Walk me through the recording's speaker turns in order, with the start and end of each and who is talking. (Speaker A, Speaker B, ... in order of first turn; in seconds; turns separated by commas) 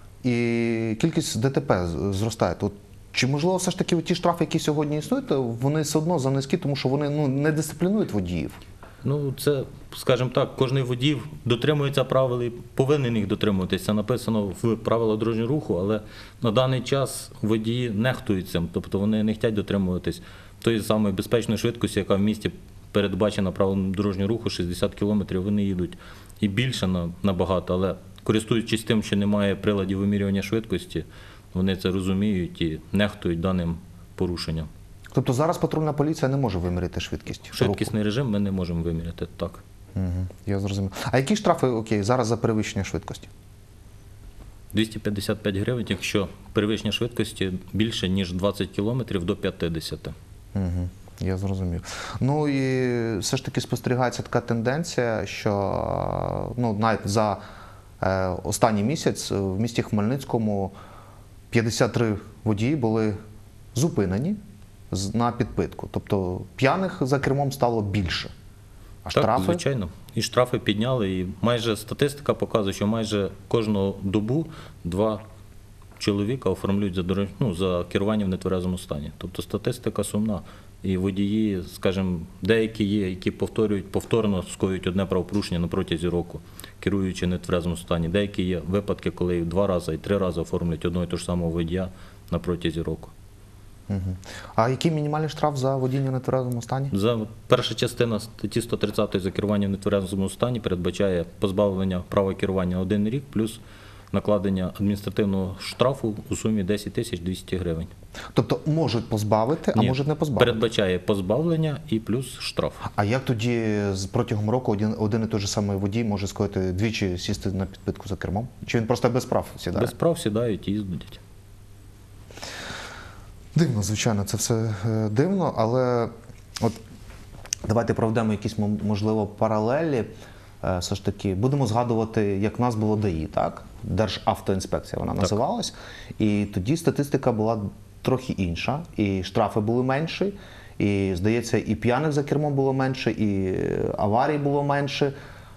Speaker A: 0.2-8.6, Speaker B: 9.0-34.7, Speaker A: 35.1-37.9, Speaker B: 37.5-39.6, Speaker A: 40.0-43.3, Speaker B: 44.7-50.2, Speaker A: 50.5-57.4, Speaker A: 58.0-60.8, Speaker A: 61.5-63.2, Speaker A: 63.7-64.4, Speaker A: 64.9-68.3, Speaker A: 69.0-69.6, Speaker B: 69.1-75.2, Speaker B: 76.0-93.1, Speaker A: 93.9-96.9, Speaker B: 96.9-103.6, Speaker B: 104.1-107.9, Speaker A: 108.3-110.6, Speaker B: 109.7-112.9, Speaker A: 112.9-119.9, Speaker B: 119.7-121.2, Speaker A: 123.5-126.8, Speaker A: 127.7-145.2